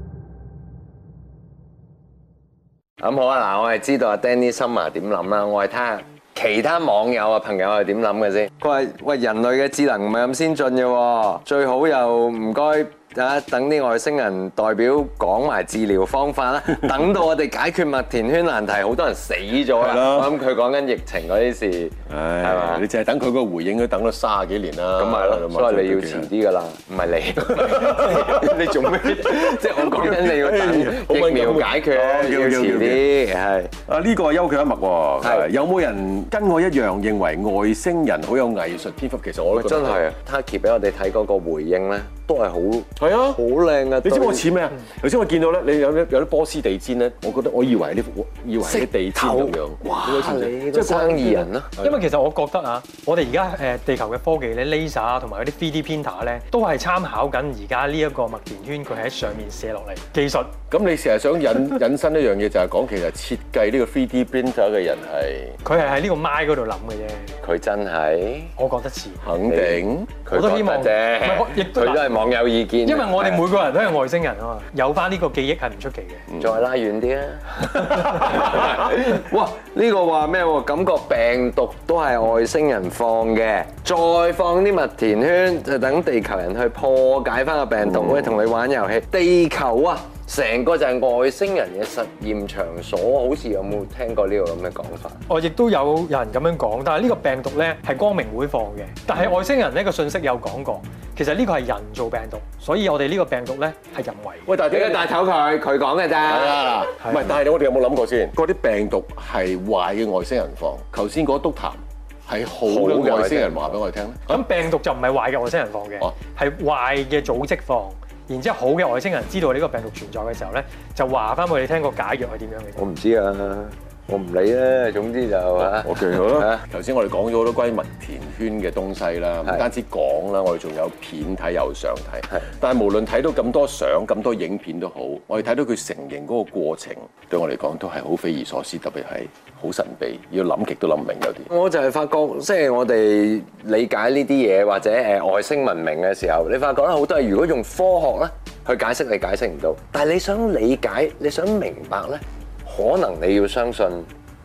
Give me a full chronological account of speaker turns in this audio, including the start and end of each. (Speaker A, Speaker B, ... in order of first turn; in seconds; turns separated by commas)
Speaker A: 3.0-22.9, Speaker B: 19.8-20.3, Speaker B: 22.1-26.3, Speaker A: 25.0-33.7, Speaker B: 27.5-33.1, Speaker B: 33.9-40.0, Speaker A: 35.2-35.5, Speaker A: 39.5-44.5, Speaker B: 43.0-43.4, Speaker B: 44.0-52.0, Speaker A: 48.6-51.7, Speaker C: 51.8-60.5, Speaker B: 60.7-65.6, Speaker C: 65.6-67.3, Speaker A: 67.4-68.5, Speaker C: 68.6-69.2, Speaker B: 69.2-70.1, Speaker A: 69.5-73.4, Speaker C: 70.3-72.2, Speaker C: 72.9-76.3, Speaker A: 76.4-95.2, Speaker C: 95.3-104.5, Speaker B: 104.5-105.1, Speaker A: 104.7-106.7, Speaker B: 106.2-114.5, Speaker A: 112.7-113.8, Speaker C: 114.3-122.8, Speaker A: 122.8-126.6, Speaker B: 125.6-141.5, Speaker A: 141.5-154.1